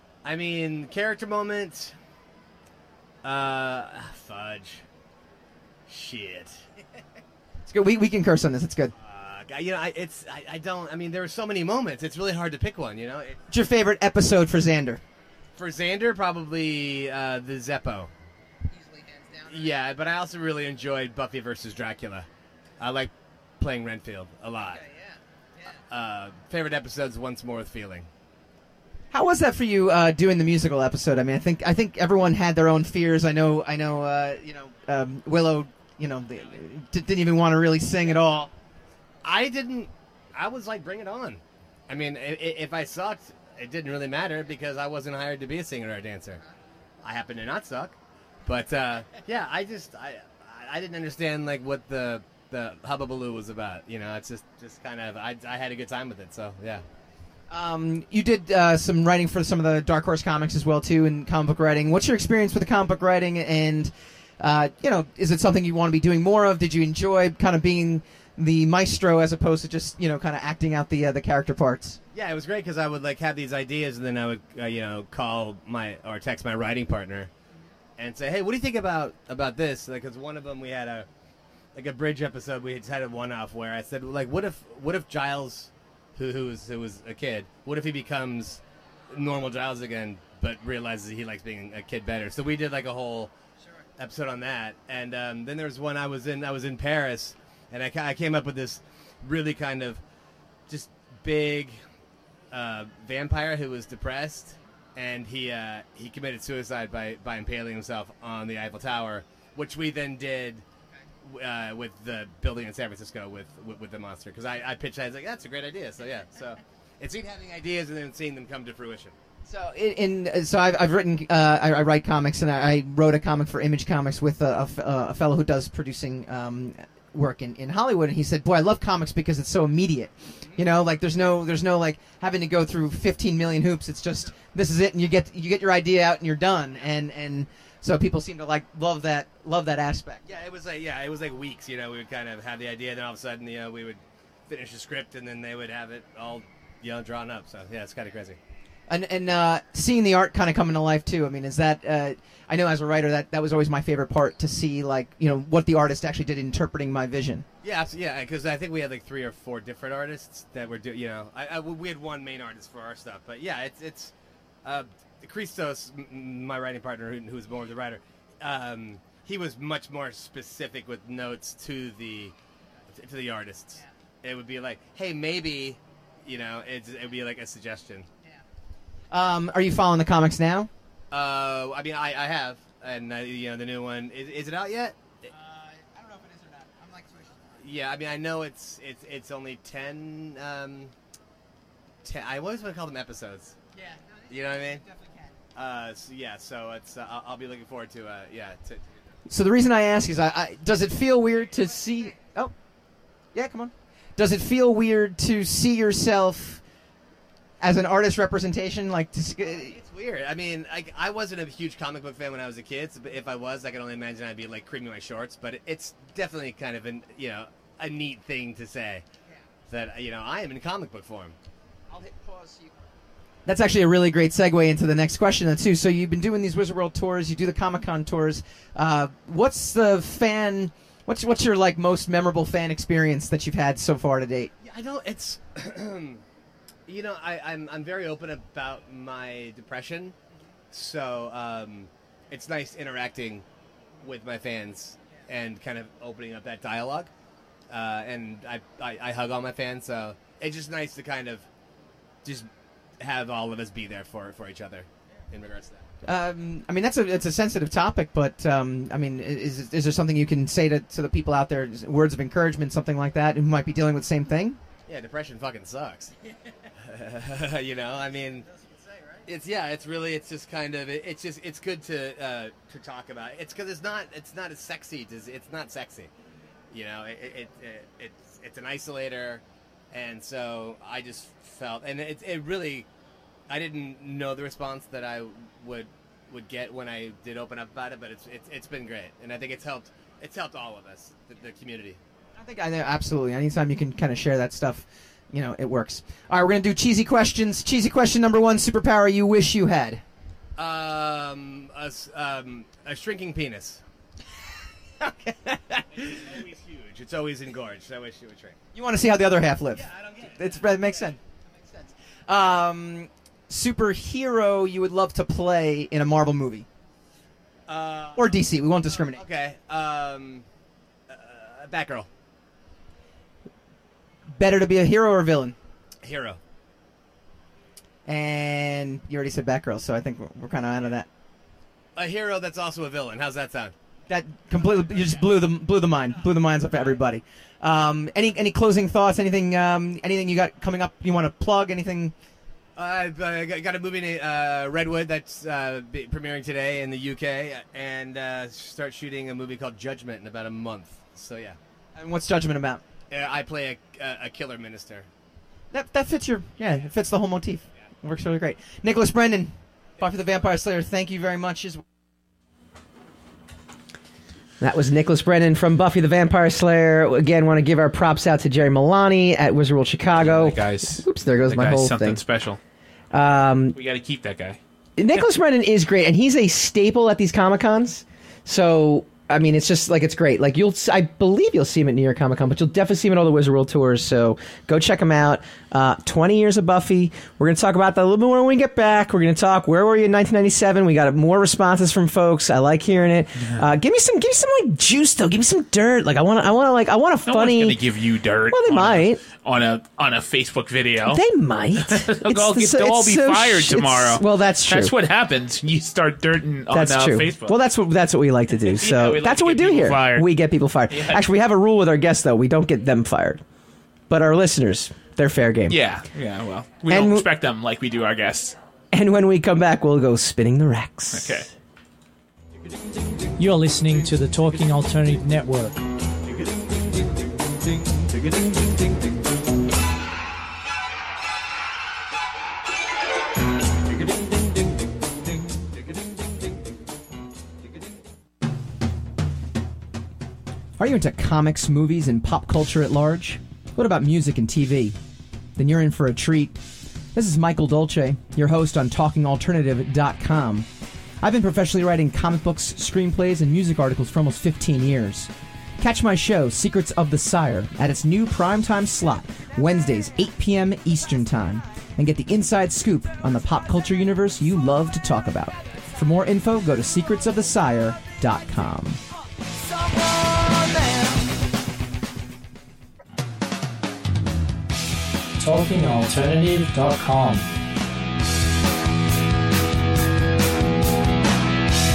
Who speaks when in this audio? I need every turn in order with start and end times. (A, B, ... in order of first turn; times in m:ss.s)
0:00.2-0:01.9 A
0:03.2-0:04.8 A
0:05.9-0:06.6 A
0:07.7-0:08.9 B
0:09.0-0:13.4 A
0:13.5-0:15.0 B
0:15.6-0:18.1 A
0:19.4-0:22.3 A
0:22.8-0:24.9 A
0:25.6-0:28.1 A
0:29.1-0:38.5 B
0:39.2-0:46.4 A
0:47.0-0:56.8 A
0:57.5-1:12.0 B
1:12.1-1:17.3 A
1:18.0-1:21.1 A
1:21.7-1:33.3 A
1:34.0-1:40.0 A
1:40.7-1:41.8 A
1:42.5-1:50.6 A
1:51.2-1:59.1 A
1:59.4-2:20.2 B
2:20.3-2:28.4 A
2:28.9-2:37.4 B
2:37.6-2:44.1 A
2:44.6-2:52.3 A
2:52.9-2:58.1 A
2:59.1-3:00.7 B
3:01.1-3:05.2 A
3:05.5-3:07.3 B
3:07.6-3:10.9 A
3:12.0-3:13.6 A
3:14.3-3:14.9 A
3:15.5-3:19.0 A
3:19.3-3:22.5 B
3:23.3-3:26.6 B
3:27.6-3:29.8 B
3:29.4-3:39.0 A
3:39.7-3:41.3 A
3:41.9-3:42.6 B
3:43.4-3:54.5 B
3:54.6-3:56.2 A
3:56.9-4:00.1 A
4:00.7-4:03.4 A
4:04.0-4:07.1 A
4:07.7-4:11.4 A
4:12.2-4:15.8 A
4:16.0-4:24.6 B
4:24.9-4:26.1 A
4:26.8-4:28.5 A
4:29.2-4:36.1 A
4:36.7-4:42.9 A
4:43.5-4:52.0 A
4:52.4-5:00.0 B
5:00.6-5:03.8 A
5:05.0-5:08.6 A
5:08.7-5:11.2 B
5:09.8-5:10.7 A
5:12.3-5:16.6 B
5:17.7-5:20.4 A
5:18.1-5:19.2 B
5:21.1-5:22.1 A
5:24.4-5:25.6 B
5:26.0-5:26.4 A
5:28.0-5:31.1 B
5:32.0-5:33.7 A
5:34.1-5:42.1 B
5:42.8-5:51.6 A
5:52.0-5:52.8 B
5:53.1-5:55.1 A
5:55.7-6:01.8 B
6:04.6-6:12.2 C
6:10.1-6:12.6 D
6:13.1-6:13.8 C
6:13.7-6:14.6 D
6:15.0-6:37.8 C
6:37.2-6:41.2 D
6:38.5-6:39.2 C
6:41.0-6:44.9 C
6:41.8-6:47.5 D
6:46.7-6:53.4 C
6:48.6-6:50.3 D
6:50.9-6:51.2 D
6:54.1-6:55.8 C
6:55.7-6:58.6 D
6:56.9-6:57.3 C
6:58.9-7:01.5 C
7:01.1-7:01.5 D
7:03.4-7:05.8 E
7:20.8-7:25.0 B
7:25.6-7:26.6 B
7:27.1-7:30.7 B
7:31.2-7:48.2 B
7:48.2-7:48.9 C
7:55.4-7:57.5 E